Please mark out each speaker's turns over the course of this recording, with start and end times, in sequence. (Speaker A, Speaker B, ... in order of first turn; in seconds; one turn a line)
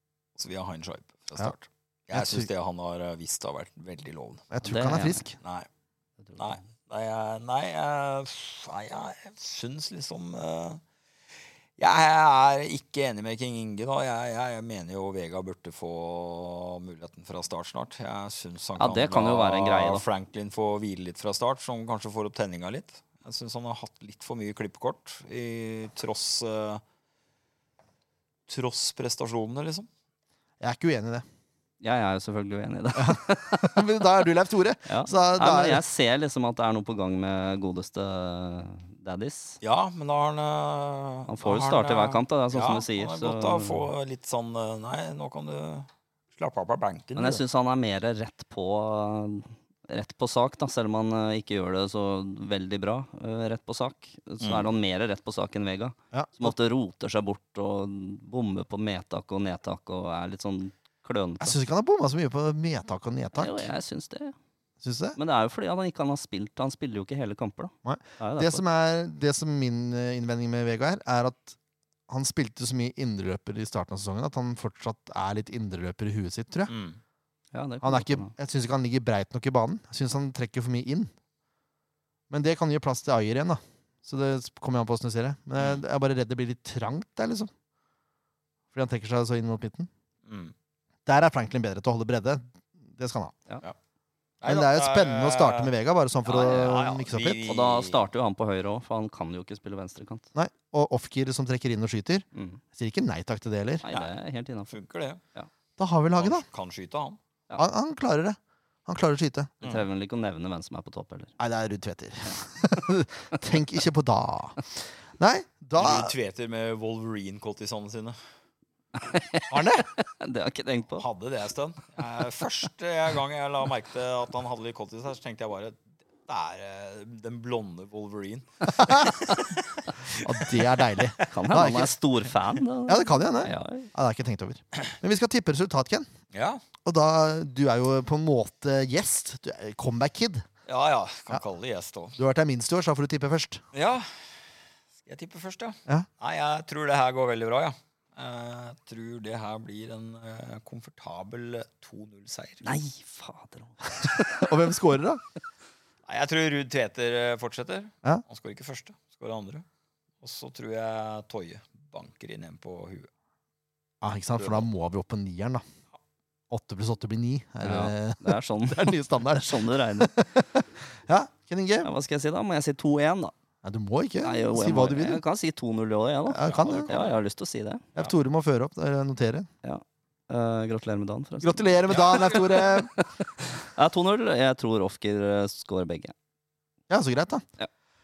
Speaker A: 0.4-4.5
Speaker B: 2.1-2.5
Speaker B: 4.5-5.4
Speaker C: 4.6-5.2
Speaker A: 5.4-5.7
Speaker A: 6.4-10.8
Speaker A: 11.8-26.8
Speaker C: 18.8-20.1
Speaker A: 28.5-29.9
Speaker B: 30.6-31.2
Speaker C: 31.8-34.1
Speaker B: 33.0-35.8
Speaker C: 34.9-39.6
Speaker A: 39.6-47.4
Speaker C: 41.3-43.9
Speaker C: 47.2-61.6
Speaker A: 54.4-54.7
Speaker B: 56.1-56.5
Speaker B: 61.4-63.7
Speaker C: 63.4-64.3
Speaker B: 64.8-65.2
Speaker C: 65.2-68.6
Speaker B: 67.8-71.6
Speaker B: 72.1-76.7
Speaker A: 76.7-77.0
Speaker C: 77.5-78.3
Speaker B: 77.8-81.1
Speaker B: 82.3-87.5
Speaker A: 85.6-85.8
Speaker B: 88.7-89.9
Speaker A: 90.2-90.5
Speaker B: 91.1-93.3
Speaker A: 94.4-95.7
Speaker B: 94.5-97.4
Speaker A: 96.3-98.0
Speaker C: 96.4-96.7
Speaker C: 97.4-100.3
Speaker B: 100.3-103.8
Speaker C: 102.3-102.6
Speaker C: 103.8-104.7
Speaker A: 104.7-105.2
Speaker B: 105.8-106.5
Speaker A: 106.2-107.2
Speaker B: 107.6-109.5
Speaker C: 109.6-111.3
Speaker B: 111.4-116.1
Speaker A: 115.8-118.2
Speaker C: 119.0-121.0
Speaker B: 119.5-119.9
Speaker A: 121.0-131.0
Speaker B: 128.7-129.2
Speaker B: 130.1-132.0
Speaker C: 131.3-133.9
Speaker B: 132.9-136.1
Speaker A: 136.3-136.6
Speaker B: 136.8-140.4
Speaker A: 140.7-142.2
Speaker B: 142.2-143.6
Speaker A: 143.7-144.1
Speaker A: 145.0-152.7
Speaker C: 152.6-154.7
Speaker B: 153.9-155.2
Speaker A: 156.1-159.7
Speaker A: 160.2-163.1
Speaker B: 164.0-165.6
Speaker B: 166.5-171.9
Speaker C: 167.6-170.1
Speaker C: 171.8-173.3
Speaker B: 173.6-175.2
Speaker C: 174.2-177.8
Speaker B: 176.3-177.0
Speaker A: 176.4-177.1
Speaker B: 177.9-179.5
Speaker C: 179.6-186.1
Speaker B: 181.4-182.9
Speaker A: 181.9-182.7
Speaker B: 186.9-187.4